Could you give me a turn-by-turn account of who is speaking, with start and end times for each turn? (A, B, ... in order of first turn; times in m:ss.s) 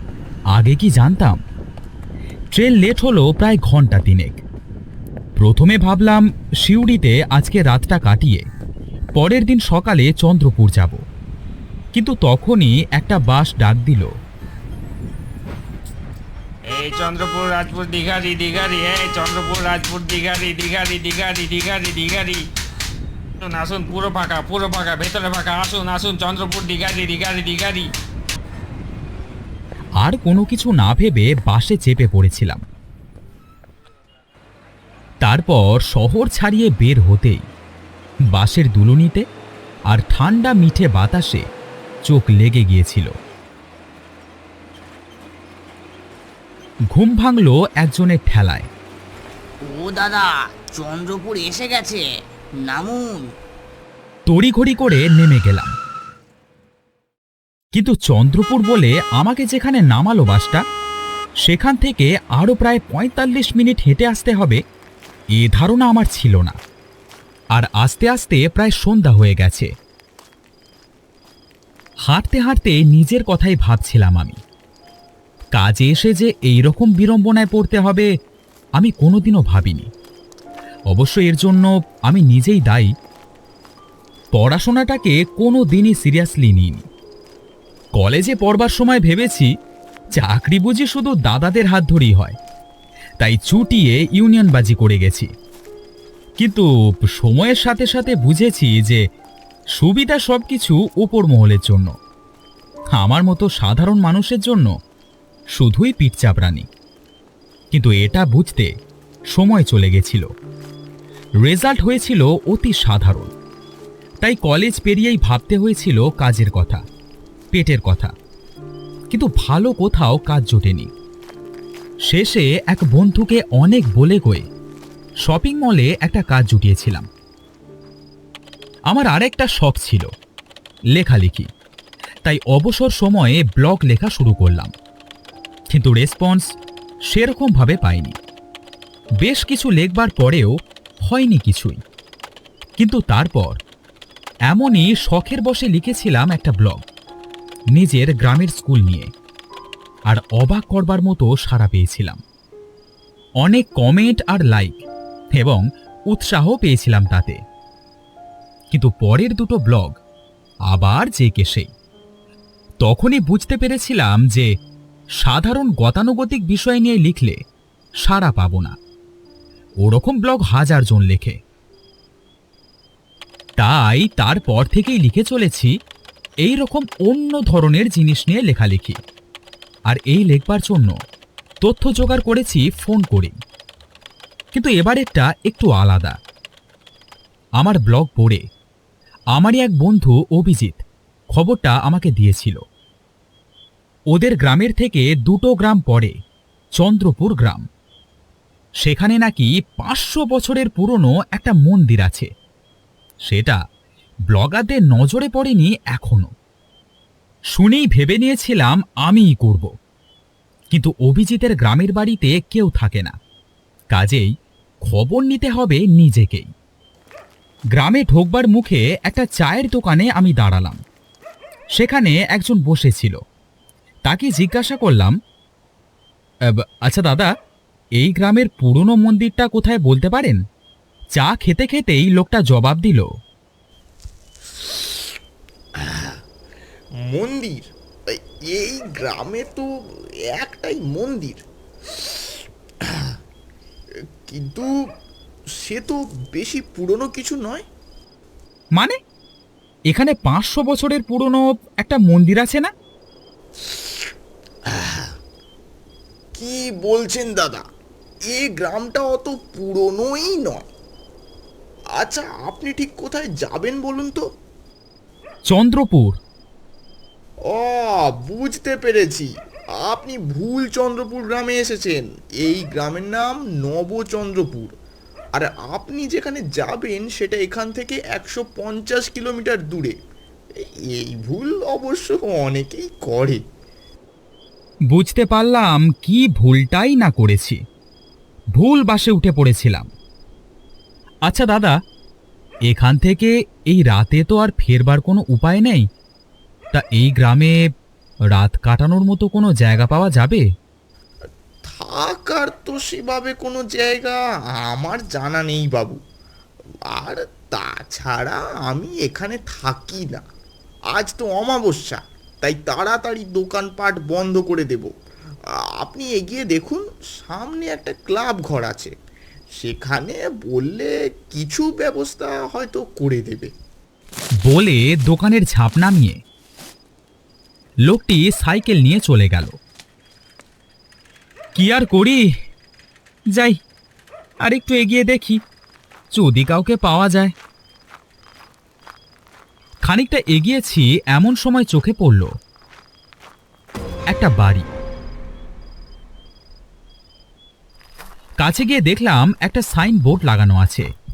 0:00.5-0:01.4 A
0:02.5-0:04.4 A
0:05.4-0:08.4 A
0:09.2-0:11.0 A
0:11.9-0:14.1 A
0:16.7-0:22.5 B
0:23.4-0:27.9 B
0:30.0-0:32.6 A
0:35.2-0:37.4 A
0:38.3-0:39.2 A
0:39.9-0:41.4 A
0:42.0-0:43.1 A
0:46.9-0:48.7 A
0:49.6-0:52.0 C
0:52.6-0:53.3 C
0:54.3-0:55.7 A
0:57.7-1:00.6 A
1:01.4-1:04.6 A
1:05.4-1:06.6 A
1:07.6-1:09.7 A
1:12.1-1:14.4 A
1:15.6-1:18.1 A
1:18.8-1:19.9 A
1:20.9-1:22.9 A
1:24.3-1:26.8 A
1:28.0-1:29.5 A
1:30.2-1:32.4 A
1:33.2-1:35.3 A
1:36.4-1:39.0 A
1:39.8-1:41.9 A
1:42.9-1:44.7 A
1:45.6-1:46.7 A
1:47.7-1:48.7 A
1:49.3-1:50.3 A
1:51.4-1:53.3 A
1:54.2-1:56.8 A
1:57.5-1:58.1 A
1:59.1-2:00.9 A
2:02.1-2:04.4 A
2:05.2-2:07.1 A
2:08.9-2:10.1 A
2:11.0-2:11.5 A
2:12.2-2:14.7 A
2:15.7-2:16.4 A
2:17.1-2:18.1 A
2:19.2-2:20.5 A
2:21.0-2:21.8 A
2:22.8-2:23.6 A
2:24.5-2:26.8 A
2:27.8-2:29.1 A
2:30.1-2:32.2 A
2:33.4-2:34.8 A
2:35.3-2:37.4 A
2:38.7-2:40.0 A
2:40.7-2:41.7 A
2:42.8-2:44.5 A
2:45.2-2:47.4 A
2:48.0-2:48.8 A
2:49.8-2:51.4 A
2:53.6-2:55.7 A
2:56.4-2:59.0 A
2:59.9-3:00.9 A
3:01.6-3:03.4 A
3:04.5-3:06.2 A
3:07.6-3:08.4 A
3:09.4-3:12.6 A
3:14.1-3:16.2 A
3:16.8-3:17.6 A
3:18.8-3:22.3 A
3:23.3-3:23.6 A
3:24.3-3:26.3 A
3:27.5-3:29.7 A
3:30.7-3:33.2 A
3:33.9-3:34.3 A
3:34.8-3:36.5 A
3:37.8-3:40.8 A
3:41.8-3:43.2 A
3:44.0-3:45.2 A
3:46.8-3:47.3 A
3:48.0-3:50.4 A
3:51.2-3:53.1 A
3:55.8-3:56.2 D
3:57.1-3:59.6 D
4:00.4-4:01.4 D
4:04.3-4:04.7 D
4:05.6-4:07.6 D
4:09.9-4:12.7 A
4:14.7-4:15.1 D
4:16.4-4:17.6 D
4:18.3-4:20.6 D
4:22.0-4:24.2 D
4:25.5-4:26.2 A
4:27.5-4:29.3 D
4:29.8-4:34.7 D
4:35.3-4:39.9 D
4:40.6-4:43.4 D
4:44.9-4:47.6 A
4:48.6-4:49.9 A
4:51.3-4:51.7 A
4:52.7-4:55.8 A
4:56.7-4:57.6 A
4:58.3-5:00.4 A
5:01.7-5:06.0 D
5:06.9-5:10.2 D
5:10.9-5:14.9 D
5:15.8-5:18.9 D
5:19.6-5:23.5 D
5:24.4-5:26.2 A
5:27.9-5:29.6 A
5:31.5-5:32.2 A
5:34.4-5:35.4 A
5:36.1-5:37.3 A
5:39.9-5:42.3 A
5:44.1-5:44.7 A
5:48.4-5:50.9 A